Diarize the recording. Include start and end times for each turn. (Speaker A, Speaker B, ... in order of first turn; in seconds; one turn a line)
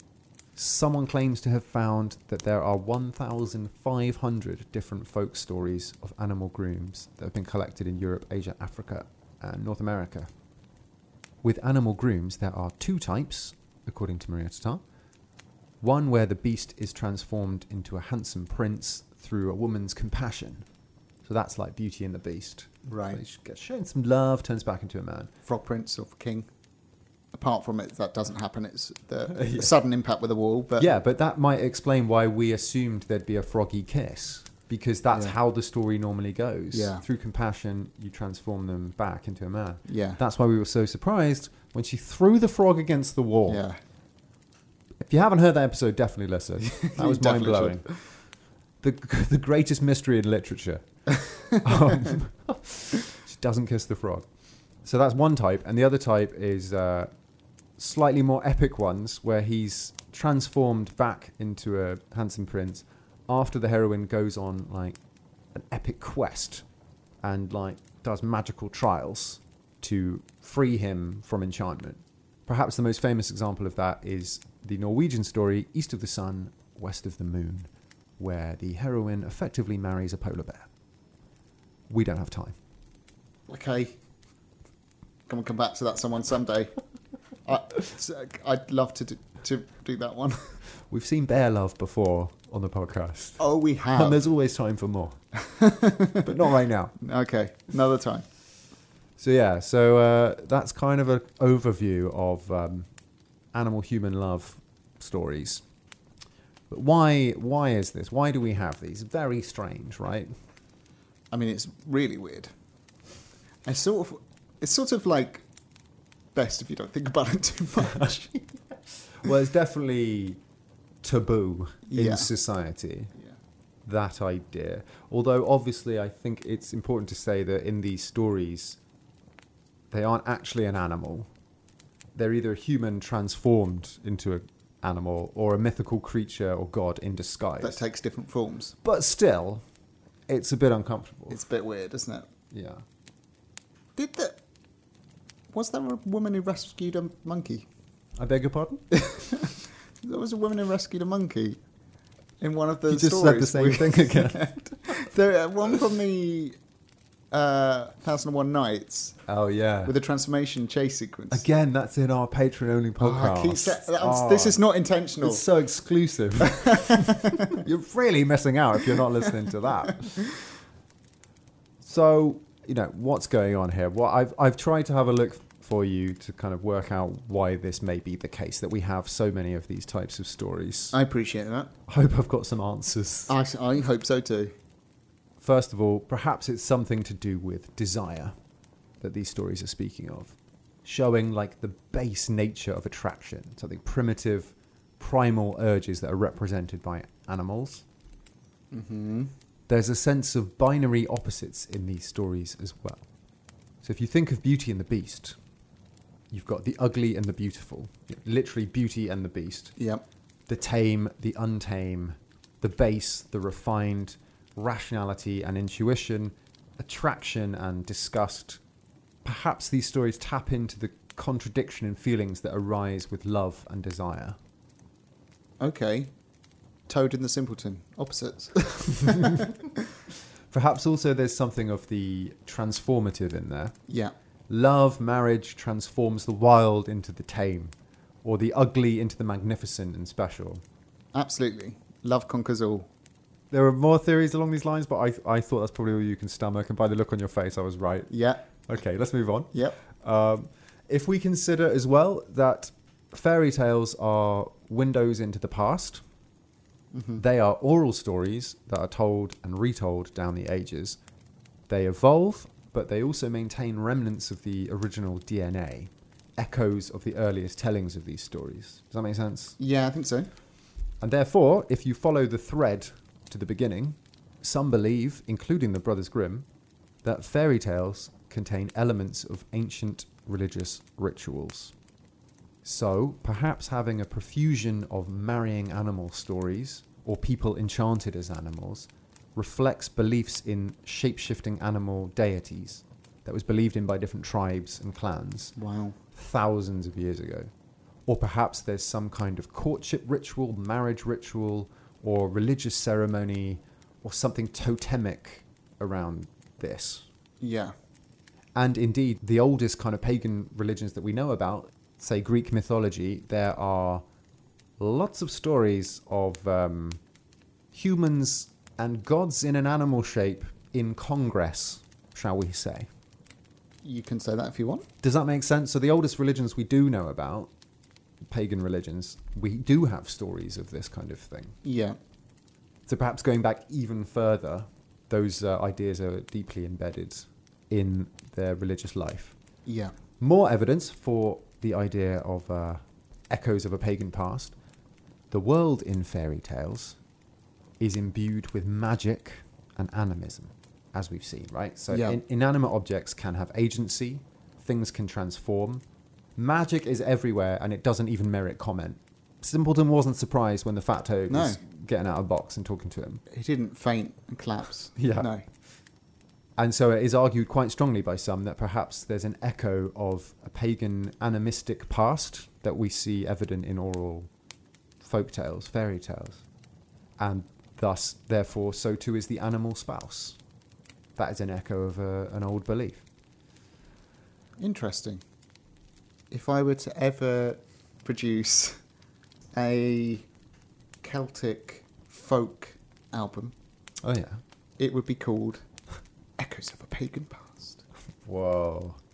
Speaker A: 0.6-10.3
Speaker A: 11.4-14.8
Speaker A: 15.8-20.6
Speaker A: 21.2-25.3
Speaker B: 22.9-23.2
Speaker B: 25.4-26.5
Speaker B: 27.3-30.9
Speaker A: 29.3-29.7
Speaker A: 30.8-43.6
Speaker B: 36.7-37.0
Speaker B: 39.9-40.2
Speaker B: 43.5-43.8
Speaker A: 45.0-47.8
Speaker B: 46.7-47.9
Speaker A: 48.8-50.8
Speaker B: 51.1-52.0
Speaker A: 51.6-54.2
Speaker A: 54.8-57.1
Speaker A: 57.8-65.0
Speaker A: 65.5-66.6
Speaker A: 67.2-80.7
Speaker A: 81.9-82.5
Speaker B: 83.5-83.9
Speaker B: 85.3-86.7
Speaker B: 87.4-90.5
Speaker A: 90.9-93.4
Speaker B: 93.4-94.2
Speaker A: 93.9-95.2
Speaker B: 95.3-96.5
Speaker A: 96.2-96.9
Speaker B: 97.0-98.2
Speaker A: 99.2-102.9
Speaker A: 103.5-105.6
Speaker A: 106.7-110.3
Speaker B: 111.3-112.5
Speaker B: 113.6-115.4
Speaker B: 116.3-118.4
Speaker A: 119.2-120.4
Speaker A: 121.0-123.1
Speaker B: 121.9-122.3
Speaker A: 123.8-128.8
Speaker A: 129.9-131.3
Speaker A: 132.1-137.8
Speaker B: 137.6-138.8
Speaker A: 138.8-139.6
Speaker A: 140.3-141.4
Speaker B: 141.3-142.3
Speaker A: 142.5-142.8
Speaker B: 143.9-144.3
Speaker B: 145.5-147.7
Speaker A: 148.2-148.8
Speaker B: 148.9-151.6
Speaker B: 152.4-156.6
Speaker A: 152.9-154.6
Speaker B: 157.3-159.2
Speaker A: 159.2-159.9
Speaker B: 159.8-161.4
Speaker A: 161.3-164.6
Speaker B: 163.0-165.4
Speaker A: 165.2-170.2
Speaker B: 166.4-167.6
Speaker B: 168.9-170.4
Speaker A: 171.8-181.0
Speaker B: 180.9-181.7
Speaker A: 181.9-183.3
Speaker B: 183.3-184.5
Speaker A: 185.4-188.3
Speaker A: 189.0-197.8
Speaker B: 198.7-199.3
Speaker A: 199.7-203.1
Speaker A: 203.8-205.4
Speaker A: 206.3-209.7
Speaker B: 209.8-210.0
Speaker A: 210.5-218.6
Speaker A: 219.2-224.4
Speaker B: 225.6-226.1
Speaker B: 226.9-229.7
Speaker A: 229.0-229.5
Speaker A: 230.5-233.8
Speaker B: 233.9-234.1
Speaker A: 234.5-240.6
Speaker B: 241.1-242.9
Speaker A: 243.5-256.0
Speaker B: 248.1-248.4
Speaker B: 256.9-257.2
Speaker A: 257.2-261.0
Speaker A: 261.7-269.6
Speaker B: 269.6-270.3
Speaker A: 271.0-276.5
Speaker A: 277.0-281.7
Speaker A: 282.6-295.5
Speaker B: 295.6-295.9
Speaker A: 296.1-297.5
Speaker A: 298.1-307.1
Speaker B: 307.4-307.7
Speaker A: 308.5-314.0
Speaker A: 314.8-317.0
Speaker A: 317.7-322.9
Speaker B: 323.8-324.9
Speaker A: 325.0-327.5
Speaker A: 328.3-331.6
Speaker B: 331.6-332.0
Speaker A: 332.9-339.4
Speaker B: 339.6-339.9
Speaker A: 340.2-344.6
Speaker A: 345.3-347.0
Speaker A: 347.8-355.8
Speaker B: 351.9-352.2
Speaker A: 356.4-363.2
Speaker B: 361.3-361.6
Speaker B: 363.3-365.4
Speaker A: 365.0-365.3
Speaker A: 366.6-374.3
Speaker A: 375.0-376.4
Speaker A: 377.2-380.4
Speaker A: 381.1-383.0
Speaker B: 384.6-385.2
Speaker B: 386.3-388.8
Speaker B: 389.5-390.3
Speaker B: 391.0-393.5
Speaker A: 394.0-394.4
Speaker B: 394.8-395.6
Speaker B: 396.4-397.8
Speaker A: 398.2-399.0